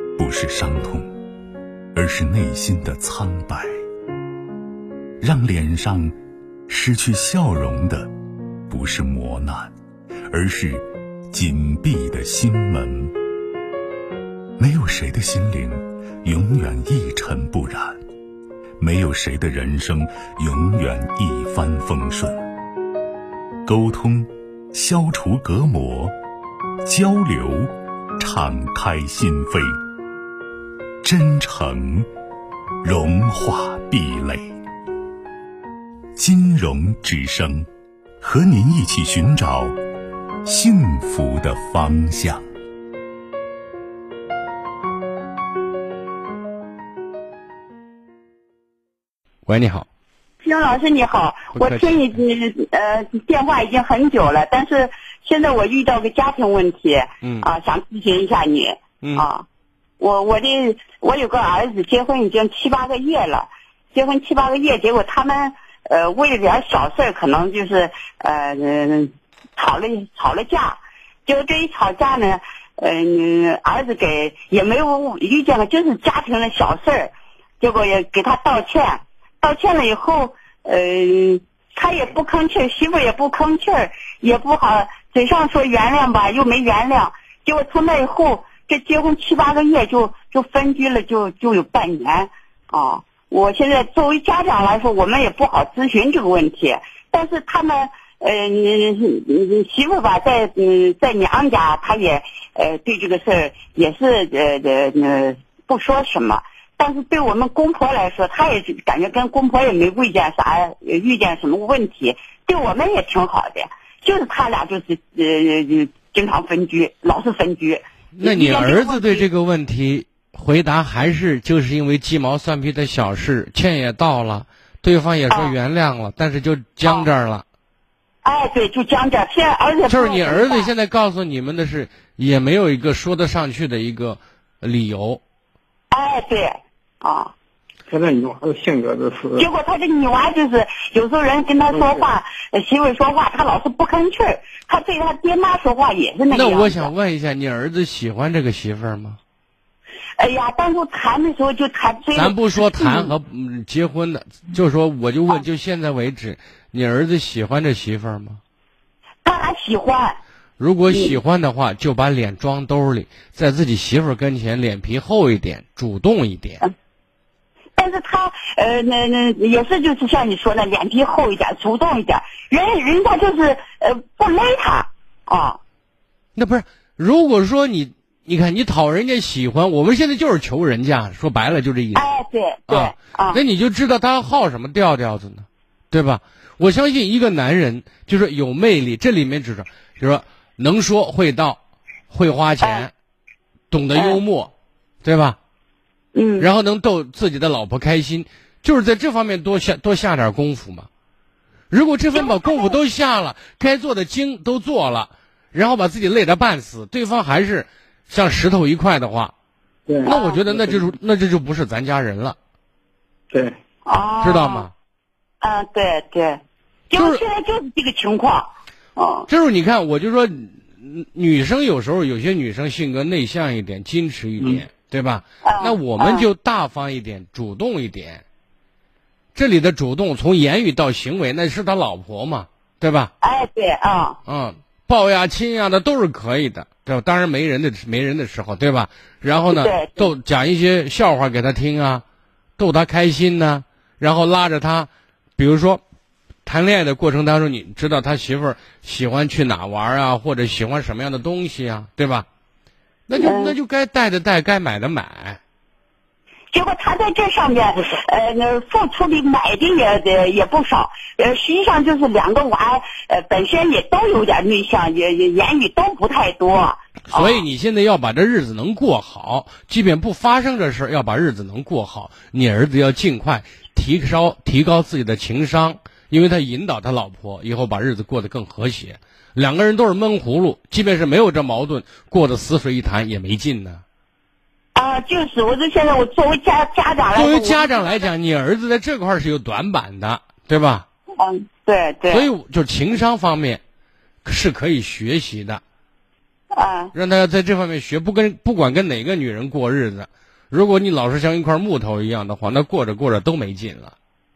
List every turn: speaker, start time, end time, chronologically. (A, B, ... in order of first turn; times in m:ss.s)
0:00.2-0:01.1 A
0:01.9-0:03.7 A
0:05.2-0:06.1 A
0:06.7-0:08.1 A
0:08.7-0:09.7 A
0:10.3-0:13.1 A
0:14.6-0:18.0 A
0:18.8-0:22.4 A
0:23.6-0:26.1 A
0:26.8-0:29.8 A
0:31.0-0:32.1 A
0:32.8-0:34.5 A
0:36.2-0:37.7 A
0:38.2-0:39.7 A
0:40.4-0:42.4 A
0:49.4-0:49.8 B
0:50.4-0:59.4 C
0:51.5-0:51.9 B
1:00.0-1:59.2 C
1:58.2-2:07.4 B
2:05.3-2:05.6 C
2:06.8-2:07.1 C
2:08.2-2:10.7 C
2:09.9-2:15.2 B
2:15.9-2:17.3 C
2:17.9-2:19.4 D
2:19.4-2:26.9 C
2:26.3-2:29.2 B
2:30.2-2:33.1 C
2:32.1-2:38.4 B
2:39.2-2:40.2 C
2:40.6-2:46.6 B
2:40.9-2:41.1 C
2:47.8-2:55.6 C
2:56.3-3:02.0 B
3:01.9-3:03.4 C
3:02.7-3:11.6 B
3:12.1-3:12.9 B
3:12.6-3:12.9 C
3:13.7-3:14.5 B
3:13.9-3:14.2 C
3:15.0-3:15.4 B
3:16.1-3:16.5 C
3:16.4-3:20.9 B
3:21.7-3:29.3 B
3:22.1-3:22.8 C
3:29.9-3:30.8 D
3:30.0-3:32.4 B
3:30.0-3:30.4 C
3:33.3-3:33.6 D
3:33.8-3:34.7 C
3:34.2-3:34.7 B
3:35.4-3:39.3 C
3:36.9-3:37.2 B
3:39.3-3:48.2 B
3:45.4-3:46.3 C
3:49.3-3:53.1 B
3:53.2-3:54.2 C
3:54.2-4:02.0 B
3:59.5-4:00.1 C
4:02.6-4:05.8 B
4:06.4-4:12.2 B
4:13.1-4:15.4 B
4:13.1-4:13.6 C
4:16.5-4:27.4 C
4:27.1-4:43.8 B
4:44.7-4:47.9 C
4:47.1-4:50.8 B
4:51.2-4:52.3 C
4:52.1-4:53.6 B
4:54.2-4:55.6 B
4:56.5-4:56.9 C
4:56.9-5:03.9 B